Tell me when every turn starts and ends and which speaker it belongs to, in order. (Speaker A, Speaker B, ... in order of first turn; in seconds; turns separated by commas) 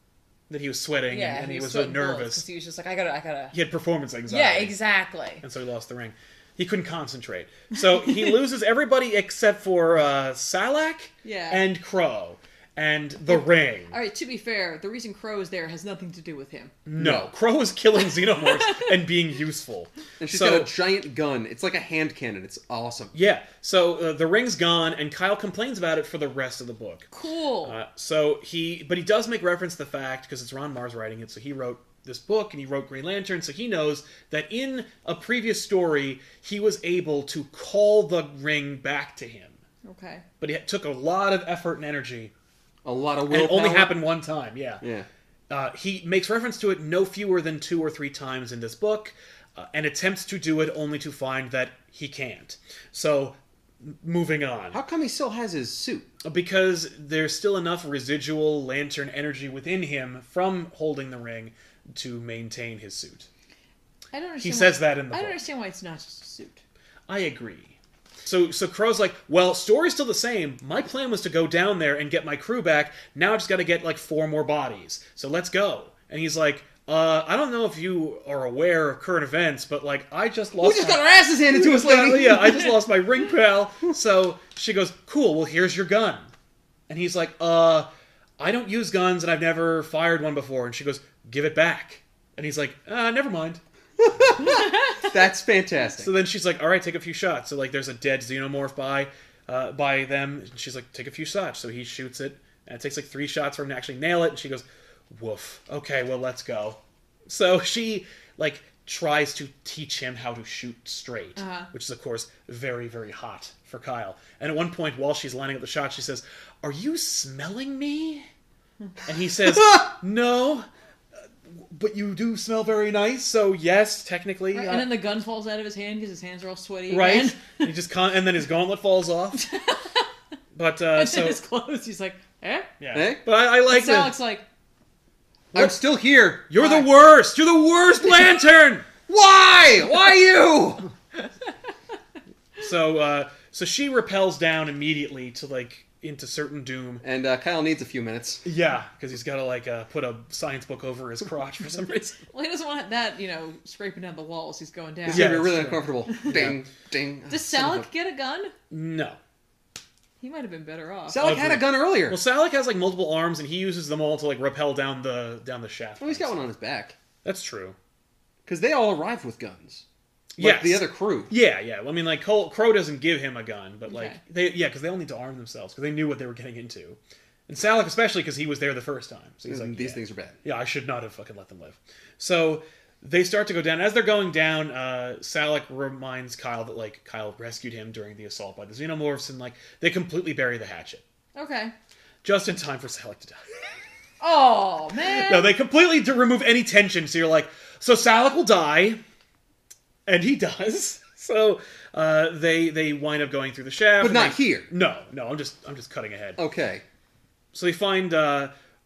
Speaker A: 0.5-2.4, Speaker B: 1.1-3.5, Speaker A: 3.5-4.7, Speaker B: 4.3-5.4, Speaker A: 5.4-13.9, Speaker B: 11.2-11.6, Speaker B: 13.9-16.8, Speaker A: 16.9-20.7, Speaker C: 17.0-17.3, Speaker B: 18.4-18.9, Speaker C: 20.2-23.1, Speaker A: 23.1-27.1, Speaker B: 27.1-27.8, Speaker A: 27.6-39.6, Speaker B: 39.8-40.2, Speaker A: 40.4-42.3, Speaker C: 42.8-44.0, Speaker A: 43.3-44.8, Speaker C: 44.8-45.1, Speaker A: 45.5-54.8, Speaker C: 54.7-56.1, Speaker A: 56.2-63.3, Speaker B: 64.1-66.6, Speaker A: 64.4-65.4, Speaker A: 67.1-86.3, Speaker C: 80.6-82.8, Speaker A: 86.9-87.9, Speaker A: 88.4-93.6, Speaker C: 94.0-96.1, Speaker A: 96.0-118.3, Speaker B: 111.4-111.7, Speaker A: 119.0-120.7, Speaker A: 121.5-125.0, Speaker B: 124.5-127.7, Speaker A: 126.9-129.4, Speaker B: 129.3-130.1, Speaker A: 130.5-131.4, Speaker B: 130.9-132.7, Speaker A: 132.8-134.2, Speaker C: 132.9-133.2, Speaker B: 133.7-134.4, Speaker C: 135.5-136.5, Speaker A: 136.5-138.9, Speaker B: 136.6-136.9, Speaker C: 139.1-140.9, Speaker A: 142.6-147.0, Speaker C: 147.0-148.4, Speaker A: 148.4-152.2, Speaker B: 152.3-155.4, Speaker C: 155.1-157.8, Speaker A: 155.1-156.6, Speaker B: 157.3-158.5, Speaker A: 158.7-159.2, Speaker B: 160.2-161.3, Speaker C: 161.1-162.2, Speaker A: 161.2-166.4, Speaker C: 166.0-166.9, Speaker A: 167.2-167.8, Speaker C: 168.4-169.8, Speaker A: 170.3-191.0, Speaker C: 170.4-171.3, Speaker B: 173.8-174.2, Speaker C: 179.4-180.4, Speaker B: 191.3-191.7, Speaker A: 192.2-193.5, Speaker B: 194.2-195.5, Speaker A: 195.0-199.0, Speaker A: 200.1-206.4, Speaker C: 204.0-204.7, Speaker C: 206.4-206.8, Speaker A: 207.5-208.5